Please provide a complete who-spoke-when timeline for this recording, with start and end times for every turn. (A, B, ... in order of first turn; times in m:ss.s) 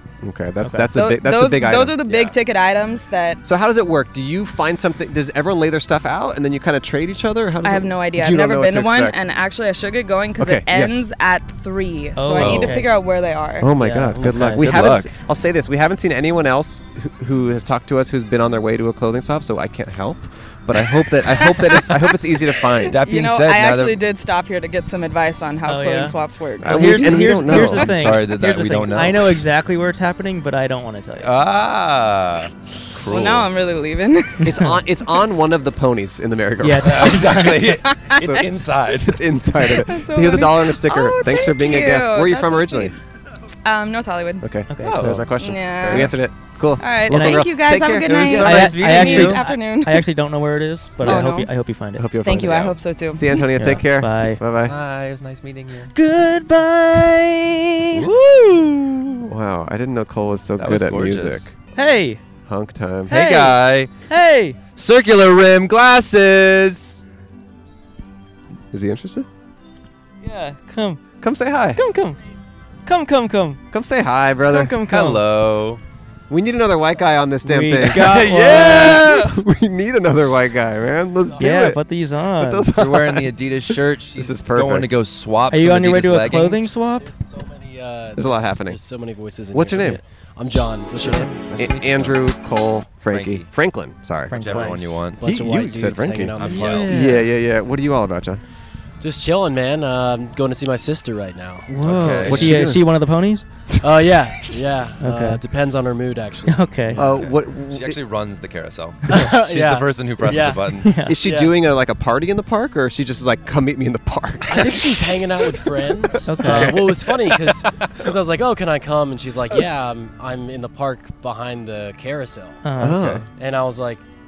0:00.2-0:02.0 A
0:00.6-0:00.9 B
0:00.9-0:03.4 C
0:02.0-0:02.4 D
0:03.4-0:09.2 A
0:07.6-0:13.7 C
0:10.4-0:11.0 A
0:12.2-0:12.9 B
0:12.3-0:12.8 D
0:13.6-0:23.0 A
0:13.8-0:14.8 B
0:14.6-0:15.1 D
0:22.8-0:27.4 C
0:22.9-0:24.0 D
0:25.6-0:31.3 B
0:26.6-0:28.0 A
0:27.4-0:29.4 D
0:31.2-0:33.5 D
0:33.1-0:34.7 C
0:34.4-0:37.3 A
0:36.6-0:37.7 B
0:36.8-0:39.2 D
0:37.5-0:38.5 C
0:38.2-0:43.0 A
0:39.6-0:43.0 C
0:43.6-0:44.5 C
0:44.4-0:49.3 A
0:44.7-0:45.2 B
0:44.8-0:45.3 D
0:45.4-0:46.2 C
0:46.8-0:50.1 C
0:47.1-0:47.4 B
0:48.0-0:49.4 D
0:48.4-0:52.1 B
0:51.0-0:51.5 C
0:51.9-0:54.8 A
0:52.2-0:53.5 C
0:53.5-0:54.4 B
0:54.6-0:55.9 D
0:55.9-0:58.0 B
0:57.9-0:59.3 D
0:59.2-1:01.5 A
1:00.6-1:01.5 D
1:01.8-1:02.2 B
1:02.4-1:03.2 A
1:03.1-1:03.9 D
1:03.1-1:04.6 B
1:04.8-1:07.0 D
1:08.7-1:09.3 A
1:10.2-1:11.0 B
1:11.2-1:11.8 A
1:11.7-1:12.2 B
1:12.8-1:13.6 B
1:13.7-1:14.8 A
1:14.5-1:15.2 B
1:14.8-1:15.8 D
1:16.3-1:21.8 A
1:17.4-1:19.2 B
1:17.9-1:19.3 D
1:21.4-1:22.7 B
1:22.4-1:24.9 A
1:22.8-1:26.7 D
1:25.5-1:27.1 B
1:27.0-1:31.4 E
1:28.2-1:28.8 A
1:29.5-1:30.0 A
1:31.0-1:32.2 D
1:31.0-1:38.4 A
1:33.1-1:33.5 D
1:34.3-1:35.0 B
1:34.4-1:35.2 D
1:35.1-1:37.2 E
1:36.4-1:36.8 D
1:36.4-1:37.3 B
1:39.0-1:42.3 E
1:41.7-1:43.4 B
1:41.8-1:42.7 D
1:41.9-1:42.9 A
1:43.8-1:47.1 E
1:45.0-1:45.4 B
1:46.5-1:47.0 B
1:47.0-1:48.0 A
1:47.0-1:50.9 D
1:49.1-1:49.4 B
1:49.2-1:51.6 E
1:50.8-1:51.2 B
1:51.0-1:57.0 A
1:54.5-2:02.6 E
1:56.2-1:56.8 B
2:02.6-2:03.0 B
2:02.8-2:03.2 A
2:03.4-2:04.0 E